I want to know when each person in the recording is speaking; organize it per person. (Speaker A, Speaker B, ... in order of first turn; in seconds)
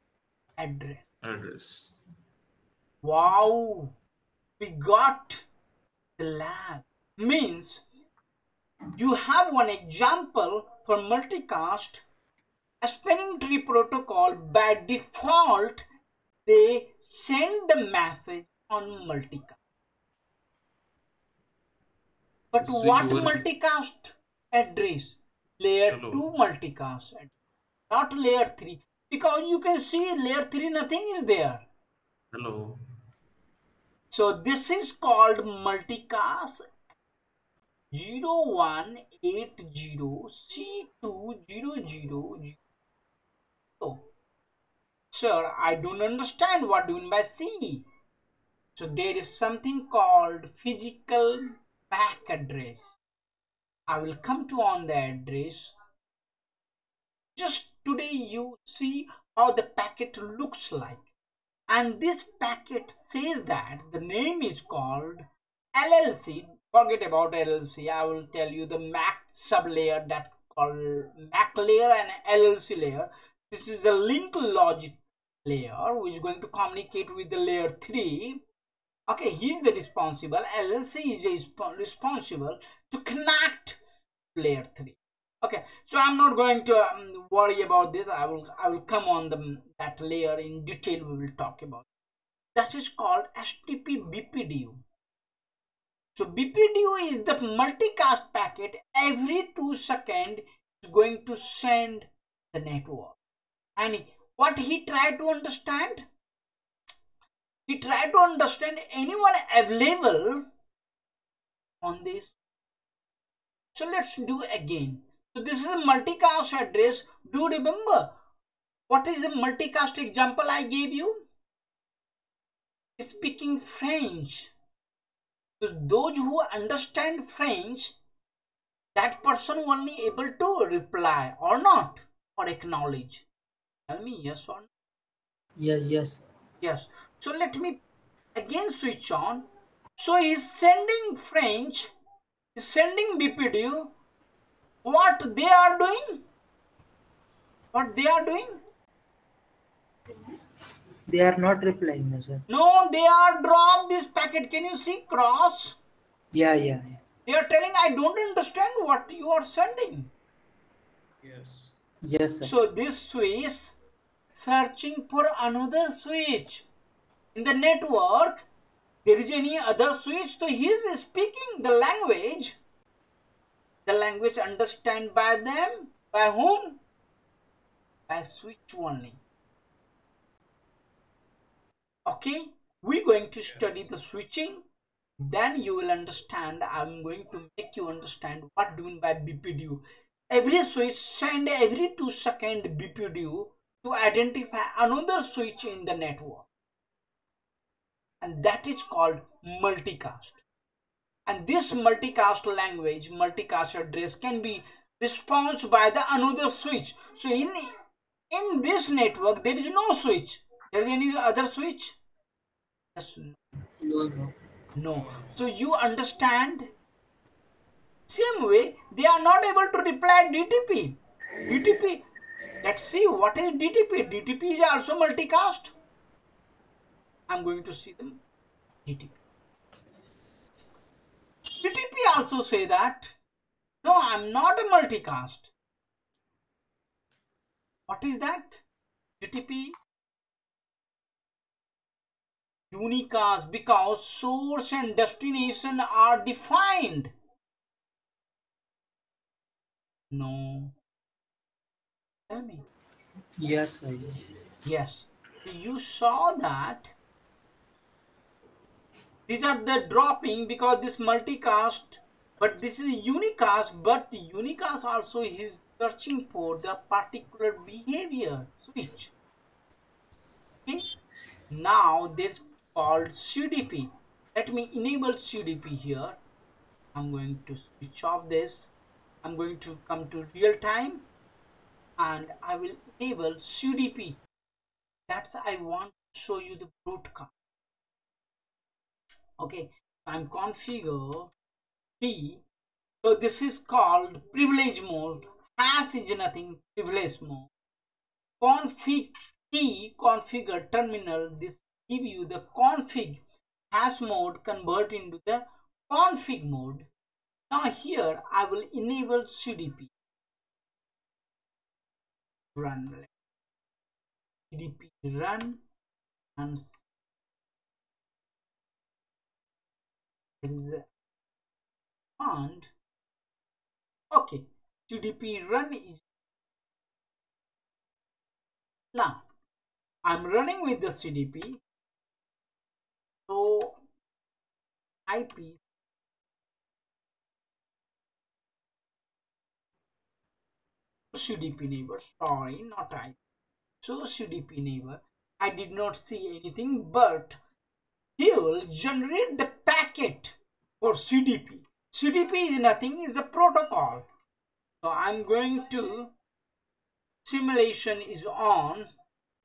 Speaker A: 0.6-1.1, 3.0-3.9, 4.6-5.5, 6.2-7.9, 9.0-12.1, 12.8-15.8, 16.5-19.6, 22.5-27.3, 27.9-31.6, 34.1-36.7, 37.9-42.6, 43.8-44.1, 45.1-47.8, 48.8-53.0, 53.9-55.7, 57.4-61.1, 61.7-78.4, 79.1-83.8, 84.3-91.9, 92.5-94.8, 96.2-103.2, 103.8-106.0, 107.7-110.5, 111.8-112.4, 113.7-118.1, 118.9-121.2, 123.0-124.5, 125.6-128.0, 128.9-133.3, 133.9-134.7, 136.6-137.8, 138.3-139.4, 140.0-141.9, 142.6-143.9, 144.8-146.2, 147.7-148.6, 152.5-155.8, 157.3-160.1, 162.4-163.8, 164.3-166.7, 167.3-168.5, 169.1-172.6, 173.9-176.8, 178.1-179.2, 182.1-184.6, 185.2-196.5, 198.2-200.4, 201.3-207.7, 208.3-212.0, 212.9-213.4, 214.8-216.7, 218.1-222.0, 222.6-225.7, 227.3-228.2, 228.8-229.2, 231.6-233.2, 233.8-235.5, 237.9-238.6, 239.2-239.8, 242.7-247.1, 250.1-250.8, 252.3-252.7, 254.7-256.9, 259.3-269.1, 271.5-276.2, 276.9-281.1, 282.0-284.2, 285.1-287.3, 289.4-291.3, 292.0-292.4, 293.0-297.5, 298.4-306.9, 307.5-309.9, 312.6-313.1, 314.5-315.6, 316.4-316.9, 320.4-320.9, 322.2-322.7, 324.1-326.0, 328.9-329.2, 330.1-331.6, 333.3-333.8, 335.1-335.6, 341.1-343.2, 343.8-347.4, 348.2-354.1, 354.8-356.1, 357.2-358.9
Speaker B: 1.2-1.9, 22.6-23.4, 25.9-26.2, 32.3-32.8, 161.2-161.8, 183.5-183.8
Speaker C: 135.6-136.2, 151.1-152.4, 156.3-157.0, 162.1-162.5, 213.8-214.3, 253.4-254.2